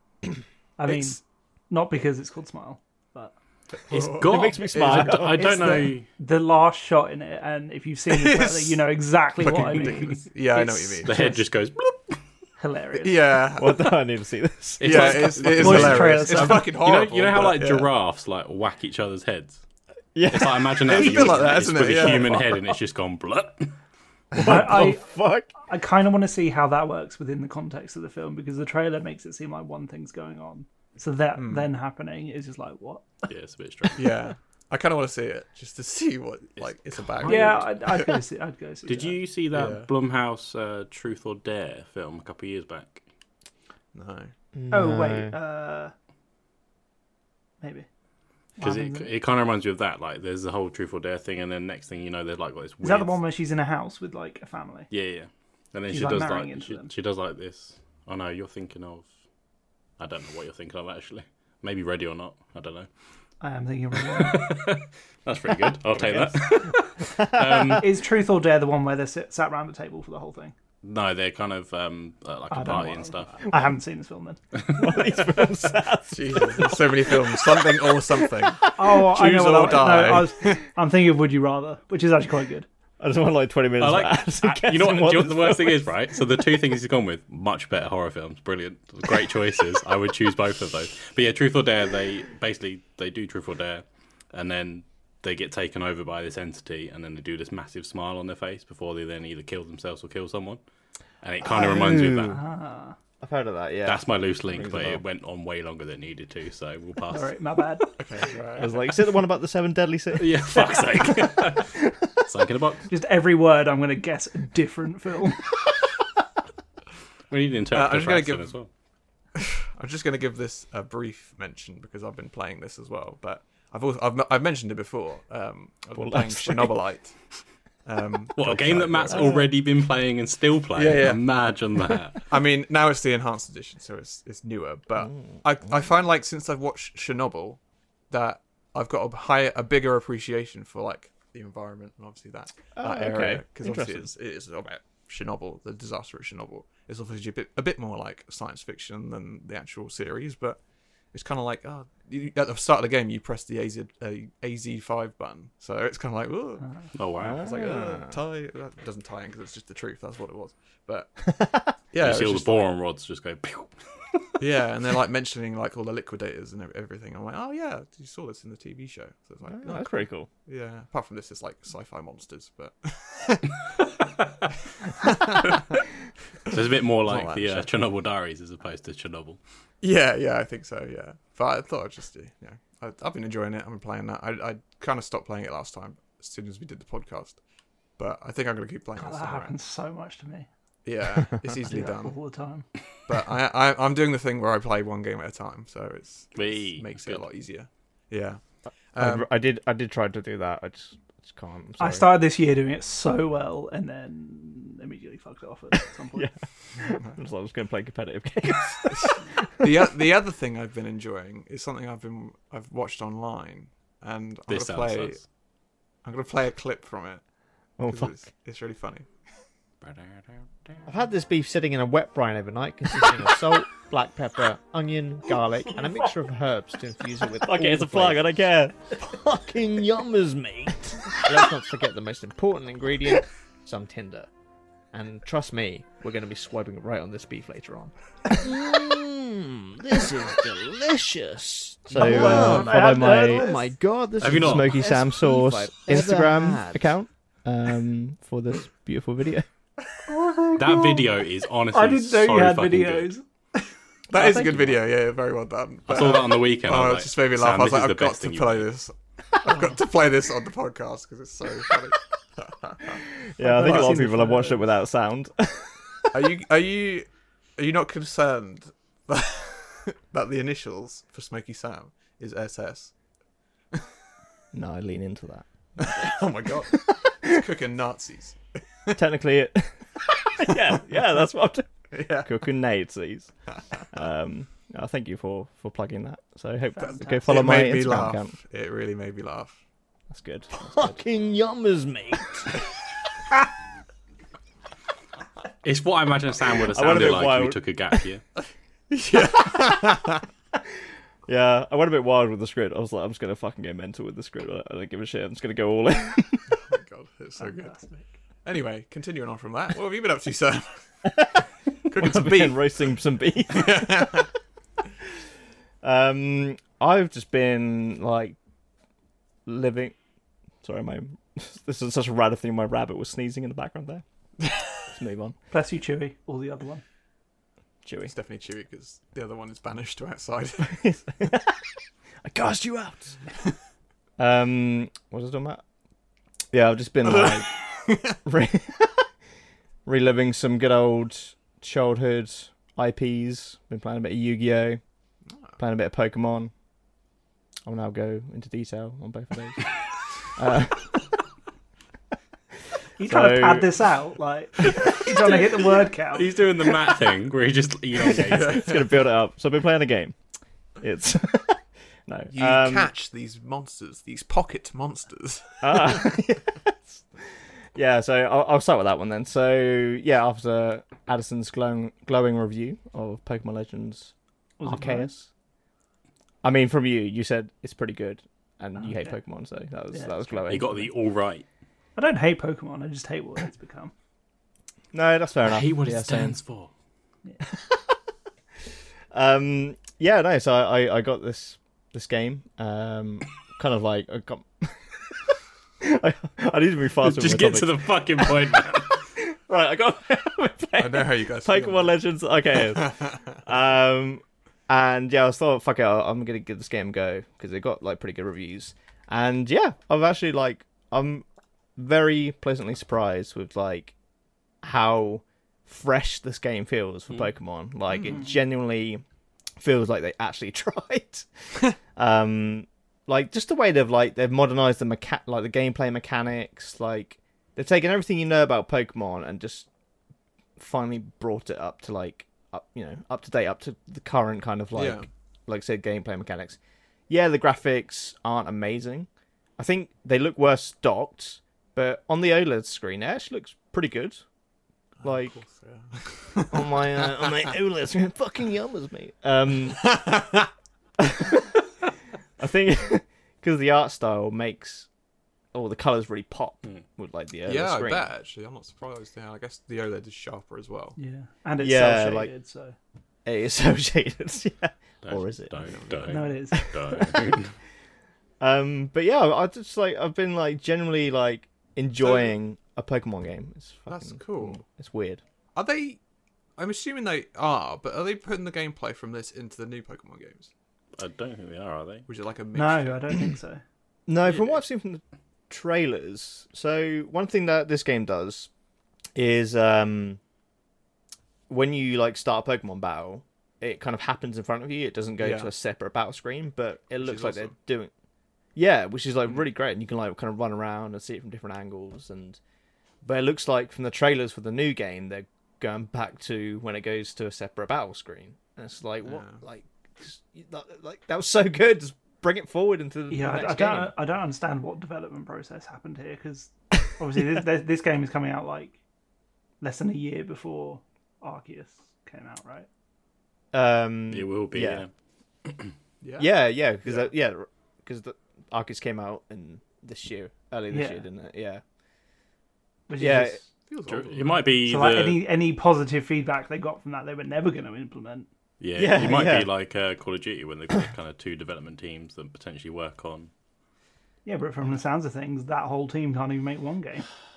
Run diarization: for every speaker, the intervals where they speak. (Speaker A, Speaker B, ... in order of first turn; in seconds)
Speaker A: 0.8-3.3, 5.3-11.4, 12.6-13.2, 15.6-16.7, 24.4-33.3, 37.2-39.2, 44.7-45.9, 47.6-47.9, 48.6-49.1, 52.8-54.9, 55.9-56.9, 63.4-64.6, 66.0-66.4, 67.8-70.5, 72.5-74.4, 78.8-82.7, 102.3-103.0, 107.1-107.9, 112.9-115.6, 156.6-156.9, 189.0-190.5, 191.7-192.7, 201.8-206.9, 241.9-243.8, 250.1-251.0, 251.7-253.2, 263.4-264.6, 286.8-287.3, 307.4-308.1, 325.5-326.8, 353.0-356.4, 374.6-375.1, 378.8-379.1, 381.9-383.9, 418.1-418.3, 461.0-462.8, 466.1-467.1, 482.5-483.6, 513.1-518.8, 519.6-522.7, 530.7-531.0, 532.9-533.5, 534.6-538.3, 544.2-547.1
Speaker B: 0.8-1.2, 3.8-5.1, 8.1-8.8, 9.4-11.1, 13.0-14.0, 14.8-17.9, 20.9-22.4, 31.4-31.7, 34.0-38.1, 39.5-39.9, 43.9-44.3, 76.1-80.6, 108.0-108.7, 117.7-118.5, 119.3-127.2, 127.8-129.4, 130.7-131.2, 132.3-150.6, 151.1-156.7, 157.2-161.2, 161.9-162.7, 164.4-173.6, 175.0-175.8, 176.4-177.7, 179.8-187.4, 188.0-189.5, 190.8-192.2, 193.1-198.4, 198.9-199.3, 206.9-207.2, 208.9-215.2, 216.0-217.2, 217.8-219.1, 242.0-242.7, 254.1-263.0, 263.6-264.0, 266.1-272.9, 275.8-279.0, 281.9-282.3, 287.1-289.6, 298.9-300.2, 306.5-307.8, 308.4-311.3, 311.8-312.8, 313.5-314.3, 328.1-330.9, 337.0-338.2, 358.1-358.9, 362.3-366.1, 400.8-402.0, 402.7-403.4, 417.9-418.2, 434.7-435.1, 445.0-447.3, 449.8-450.5, 457.4-461.0, 465.6-466.3, 472.0-472.3, 473.9-474.6, 475.5-476.0, 476.6-480.5, 482.1-483.1, 484.2-484.6, 495.2-495.5, 497.0-497.5, 509.0-509.4, 526.0-526.3, 533.7-534.4
Speaker C: 3.9-6.1, 11.0-12.2, 14.8-19.6, 20.3-23.8, 33.3-34.1, 36.6-37.6, 38.9-43.0, 48.6-53.1, 54.9-59.1, 60.0-62.9, 64.1-67.9, 70.8-73.4, 74.6-75.0, 83.8-100.6, 101.2-102.4, 103.8-107.8, 110.1-112.9, 117.3-118.7, 128.3-132.3, 156.9-157.4, 162.0-163.8, 176.5-179.4, 196.3-197.2, 214.5-215.2, 219.8-220.8, 244.2-244.9, 250.5-253.1, 255.9-258.7, 295.6-298.2, 356.1-358.7, 380.4-381.4, 385.4-386.7, 397.0-399.0, 465.0-467.5, 481.0-482.1, 524.1-524.9, 525.5-525.7, 533.9-535.2, 538.6-543.3
Speaker D: 4.2-5.7, 13.6-15.4, 20.1-21.0, 24.3-25.5, 44.5-45.4, 67.0-67.8, 74.7-77.8, 78.6-78.9, 83.0-86.0, 101.4-102.4, 103.2-105.0, 108.6-111.6, 126.0-126.8, 129.1-129.4, 135.0-135.4, 142.8-144.1, 157.2-158.2, 161.2-161.7, 169.5-170.3, 198.9-202.1, 206.1-209.7, 217.8-218.2, 220.8-229.3, 231.1-234.3, 234.9-238.6, 239.9-240.4, 241.8-243.6, 244.2-249.5, 263.3-266.2, 274.5-276.1, 278.9-283.3, 283.9-288.4, 290.1-291.1, 296.7-297.6, 301.3-306.5, 311.9-314.2, 315.8-318.4, 319.4-319.9, 320.6-324.0, 324.9-325.4, 327.8-328.1, 330.6-331.6, 332.2-333.2, 334.2-335.6, 336.5-337.5, 338.1-339.1, 339.8-344.8, 345.6-346.5, 347.6-349.7, 350.3-351.1, 353.0-353.8, 358.1-360.1, 360.8-362.9, 365.6-375.3, 376.4-380.9, 384.9-386.4, 387.5-387.9, 389.1-394.9, 395.8-398.3, 399.1-413.9, 414.6-419.0, 419.6-421.3, 421.8-429.7, 430.6-436.6, 437.1-444.2, 445.0-445.4, 446.5-450.1, 451.0-451.6, 452.4-454.9, 455.5-458.1, 461.6-462.3, 463.2-465.7, 466.5-467.3, 468.4-475.2, 484.1-488.5, 489.1-490.2, 491.5-497.9, 498.5-502.4, 503.0-513.9, 523.5-524.8, 526.2-531.6, 533.0-533.4, 538.8-539.5
Speaker E: 221.7-223.4, 224.6-232.9, 233.8-234.1, 235.0-235.6, 236.4-246.9, 290.8-292.4